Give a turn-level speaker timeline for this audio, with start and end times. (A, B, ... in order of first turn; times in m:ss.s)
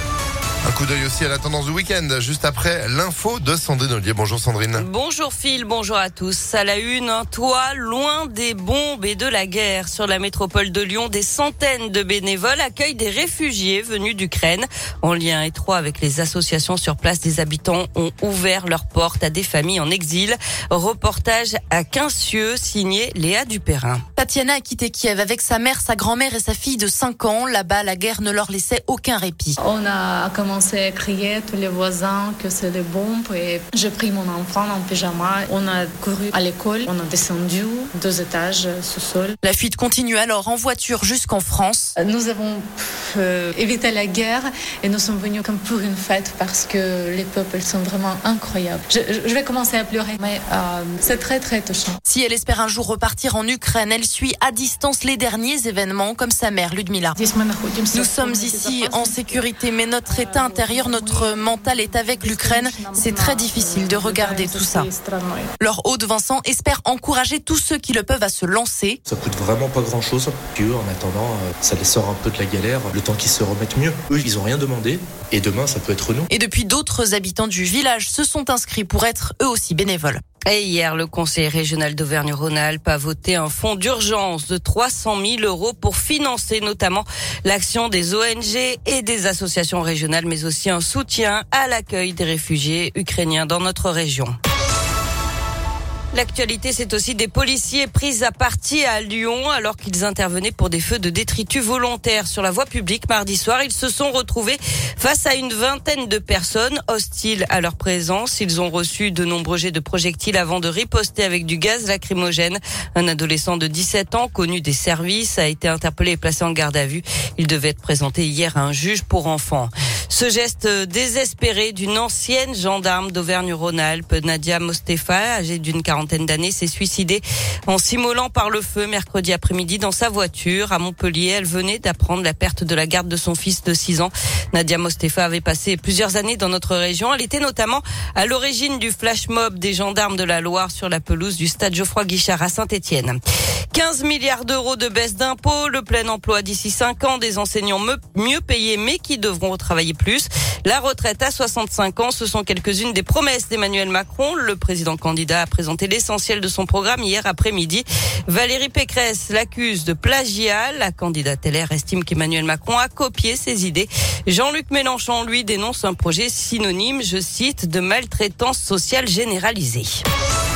0:00.6-0:04.8 A
0:04.7-0:24.0 B
0:24.2-0:29.6 C
0:29.6-0:39.4 D
0:39.4-0:42.0 C
0:42.0-0:52.0 D
0:52.0-0:57.2 C
0:57.2-0:59.5 D
0:57.9-1:04.9 C
1:00.1-1:05.5 D
1:05.6-1:09.0 C
1:09.1-1:16.3 E
1:16.3-1:20.2 C
1:20.4-1:34.4 B
1:36.1-2:23.2 B
2:23.7-2:50.0 B